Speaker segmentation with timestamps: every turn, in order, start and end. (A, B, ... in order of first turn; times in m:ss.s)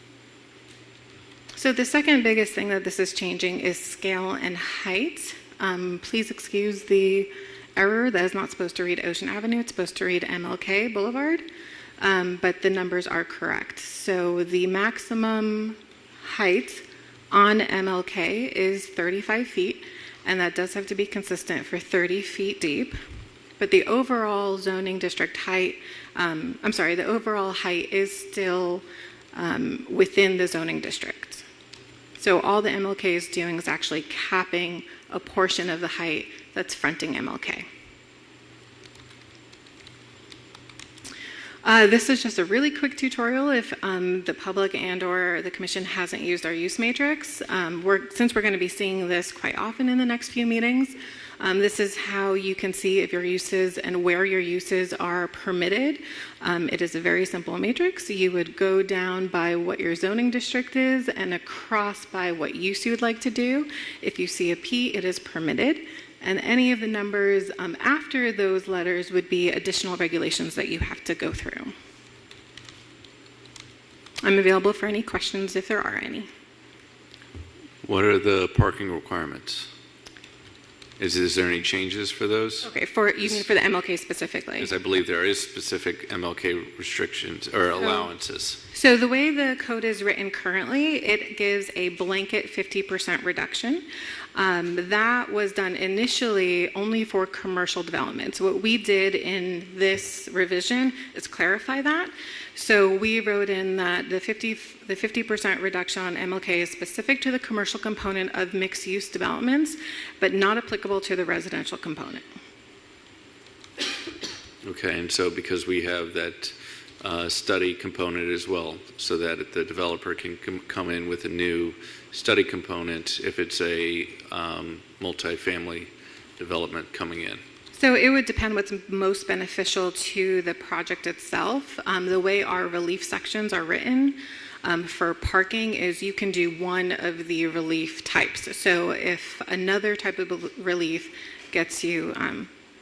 0:01.6-0:11.4 A
0:12.0-0:23.0 A
0:23.6-0:31.4 A
0:32.2-0:37.6 A
0:41.6-1:11.7 A
1:14.2-1:16.3 A
1:17.8-1:19.7 B
1:21.0-1:22.7 B
1:22.6-1:24.7 A
1:24.6-1:28.6 B
1:27.8-1:28.1 A
1:28.7-1:52.2 A
1:54.6-2:07.4 B
2:07.7-2:22.5 A